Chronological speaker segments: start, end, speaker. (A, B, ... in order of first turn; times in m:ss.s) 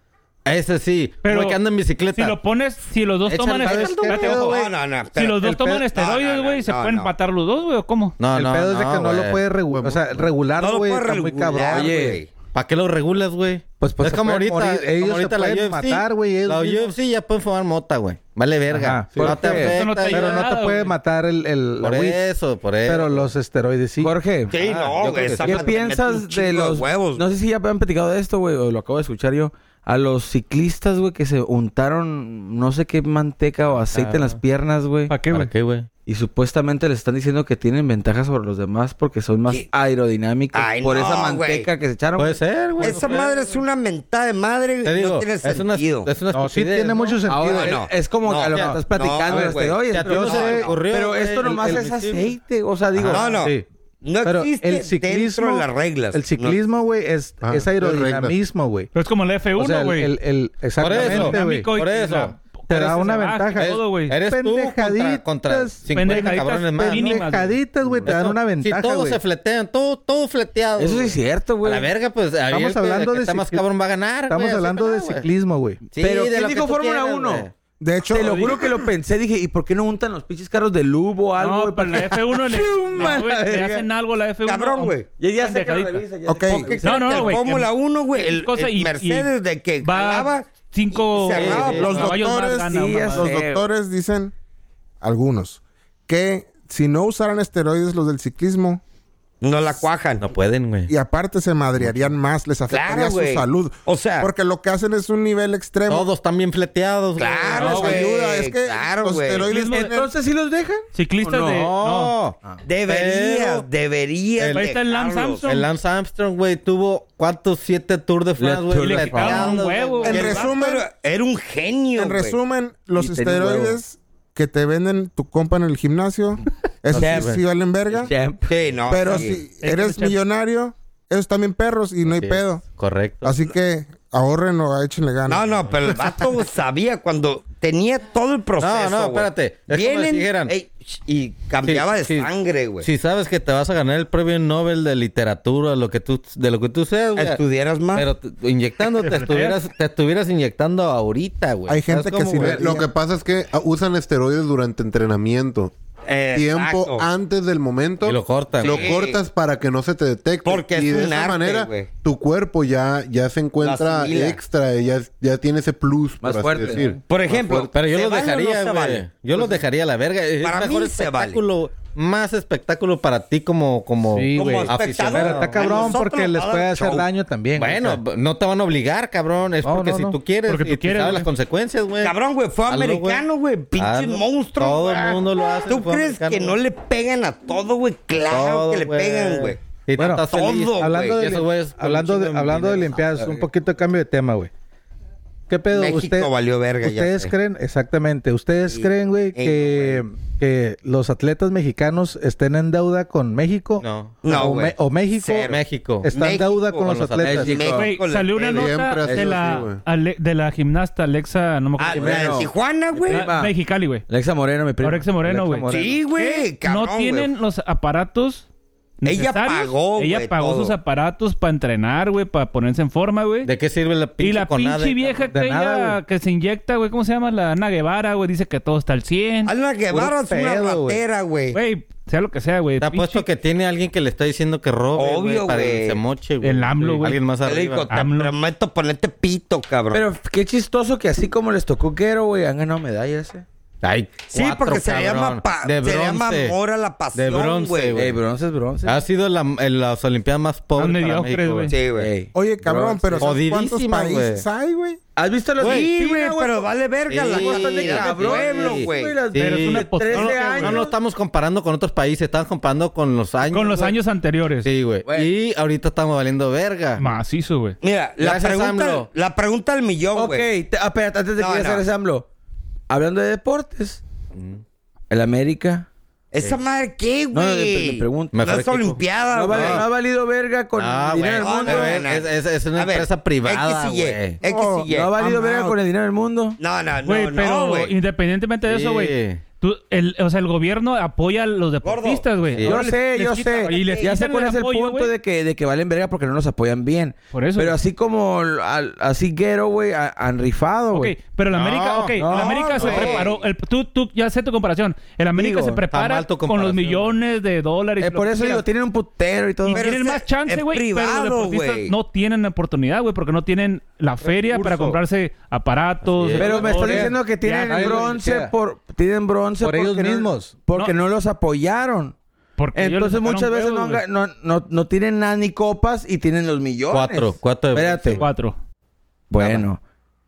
0:00.4-0:02.4 A
0:01.2-0:01.6 B
0:02.1-0:08.2 B
0:03.3-0:04.4 A
0:03.6-0:04.7 C
0:03.9-0:07.1 D
0:05.4-0:05.8 C
0:08.2-0:09.5 A
0:08.3-0:12.2 C
0:09.7-0:10.0 E
0:10.6-0:12.3 D
0:11.7-0:12.2 F
0:12.5-0:20.5 A
0:13.8-0:16.9 C
0:18.7-0:22.2 C
0:19.1-0:19.8 F
0:19.5-0:20.9 B
0:21.8-0:23.3 A
0:22.8-0:24.1 C
0:24.0-0:24.5 F
0:24.5-0:27.2 D
0:24.5-0:25.7 A
0:25.4-0:35.1 F
0:33.9-0:34.4 A
0:35.1-0:35.5 B
0:35.3-0:35.9 A
0:36.0-0:42.4 F
0:40.5-0:41.7 D
0:42.2-0:43.3 A
0:42.8-0:46.1 D
0:42.8-0:43.3 B
0:44.8-0:47.2 A
0:46.3-0:47.8 C
0:47.3-0:53.2 F
0:47.5-0:50.7 D
0:48.5-0:48.8 A
0:49.3-0:52.3 A
0:50.0-0:50.6 C
0:52.9-0:53.6 A
0:53.1-0:56.6 D
0:54.2-0:58.9 C
0:57.4-0:58.4 E
0:58.9-1:00.2 B
0:59.5-1:01.7 C
1:00.8-1:02.3 A
1:00.8-1:04.1 B
1:02.7-1:09.2 C
1:03.5-1:15.2 A
1:05.9-1:07.6 B
1:10.8-1:11.9 F
1:12.5-1:13.6 C
1:14.3-1:15.8 C
1:15.9-1:17.5 A
1:16.0-1:17.5 F
1:17.8-1:18.8 G
1:18.1-1:23.8 F
1:21.4-1:26.0 B
1:24.4-1:25.1 D
1:25.2-1:27.4 F
1:26.3-1:26.7 G
1:26.6-1:32.2 D
1:26.8-1:29.3 B
1:29.8-1:33.3 B
1:31.3-1:32.1 A
1:31.7-1:34.3 G
1:32.7-1:33.6 F
1:35.0-1:38.8 G
1:39.4-1:40.2 D
1:40.2-1:40.9 A
1:40.9-1:46.1 G
1:41.8-1:42.1 A
1:42.7-1:44.3 D
1:45.9-1:48.0 A
1:47.2-1:49.5 D
1:47.6-1:50.1 G
1:47.6-1:48.0 B
1:49.4-1:49.9 B
1:49.6-1:51.7 F
1:50.9-1:52.1 B
1:51.5-1:53.6 A
1:52.6-1:55.4 D
1:54.4-1:54.6 A
1:54.5-1:55.6 B
1:55.4-2:00.1 A
1:58.4-1:59.7 F
1:58.7-2:00.5 B
2:00.0-2:02.4 D
2:00.0-2:00.8 G
2:02.0-2:08.1 G
2:03.0-2:03.8 F
2:06.9-2:07.4 A
2:06.9-2:07.4 F
2:07.9-2:08.5 F
2:08.5-2:09.4 D
2:08.9-2:12.6 G
2:09.6-2:10.2 B
2:12.1-2:13.4 A
2:13.2-2:15.4 G
2:15.3-2:22.9 D
2:18.6-2:20.5 A
2:21.6-2:22.3 A
2:22.8-2:27.4 A
2:27.2-2:28.1 D
2:27.9-2:32.6 A
2:29.0-2:29.6 B
2:31.7-2:32.9 G
2:32.4-2:35.7 E
2:32.4-2:32.8 C
2:36.1-2:37.1 D
2:36.3-2:47.0 E
2:38.0-2:38.9 A
2:38.6-2:39.2 D
2:40.4-2:41.9 D
2:43.6-2:44.4 D
2:46.2-2:47.0 F
2:47.1-2:49.6 D
2:47.2-2:55.9 A
2:50.4-2:51.4 D
2:54.1-2:58.0 C
2:54.3-2:57.1 D
2:57.5-3:02.1 A
2:59.6-3:00.2 C
3:00.5-3:01.3 B
3:02.0-3:09.6 D
3:02.7-3:03.2 A
3:03.8-3:06.6 A
3:08.3-3:13.4 A
3:10.0-3:14.5 C
3:10.3-3:11.2 D
3:15.5-3:27.6 C
3:15.7-3:17.3 D
3:18.7-3:20.0 D
3:23.8-3:24.4 A
3:24.2-3:28.7 D
3:25.5-3:26.1 A
3:26.8-3:27.5 A
3:27.2-3:27.9 F
3:27.6-3:32.5 B
3:28.5-3:29.8 E
3:29.0-3:29.3 F
3:31.8-3:33.2 D
3:31.9-3:33.5 F
3:33.1-3:34.0 B
3:34.1-3:35.1 F
3:34.8-3:38.4 B
3:35.2-3:36.0 C
3:35.7-3:37.3 D
3:39.0-3:43.5 B
3:39.0-3:40.7 D
3:43.4-3:45.2 A
3:44.2-3:49.5 B
3:45.3-3:46.0 C
3:49.4-3:51.6 D
3:49.9-3:51.0 A
3:50.3-3:50.8 C
3:51.5-3:53.2 B
3:52.8-3:57.9 A
3:54.9-3:56.0 D
3:56.4-3:57.2 B
3:57.4-4:00.0 D
3:57.9-3:58.3 B
3:59.9-4:03.4 F
4:03.8-4:06.6 A
4:04.3-4:08.0 D
4:07.1-4:08.2 A
4:07.9-4:09.0 F
4:08.8-4:11.7 A
4:10.8-4:11.7 B
4:11.7-4:12.1 D
4:11.9-4:13.3 F
4:12.3-4:15.0 G
4:13.2-4:14.4 A
4:15.2-4:16.7 F
4:15.6-4:15.9 A
4:15.6-4:19.2 D
4:17.1-4:24.0 A
4:17.2-4:20.9 F
4:19.4-4:20.9 B
4:23.4-4:24.7 B
4:24.6-4:27.0 A
4:25.0-4:25.3 F
4:27.0-4:27.8 B
4:27.8-4:30.5 D
4:28.2-4:29.1 A
4:30.1-4:32.2 F
4:31.4-4:31.8 D
4:32.9-4:34.0 F
4:34.3-4:34.6 A
4:35.1-4:35.9 F
4:36.3-4:39.8 D
4:37.3-4:38.4 F
4:38.3-4:39.8 A
4:39.3-4:42.0 F
4:40.8-4:44.4 A
4:41.4-4:45.2 D
4:44.4-4:45.5 G
4:44.9-4:46.6 F
4:46.6-4:47.9 D
4:47.0-4:55.1 B
4:48.7-4:49.4 A
4:51.8-4:52.2 D
4:52.5-4:52.8 A
4:52.6-5:01.2 F
4:53.6-4:54.1 D
4:57.3-4:57.8 B
5:00.9-5:08.6 B
5:01.5-5:02.2 A
5:02.2-5:03.1 F
5:02.2-5:03.4 D
5:02.8-5:03.3 A
5:05.3-5:05.8 F
5:05.9-5:07.2 A
5:08.0-5:09.8 F
5:09.6-5:18.1 B
5:09.7-5:11.9 D
5:14.2-5:15.0 C
5:16.0-5:16.8 A
5:16.4-5:22.2 F
5:16.6-5:18.5 C
5:19.6-5:20.5 C
5:22.6-5:24.0 B
5:22.7-5:28.2 F
5:26.9-5:28.3 A
5:28.2-5:28.6 B
5:29.3-5:29.8 F
5:29.4-5:29.6 A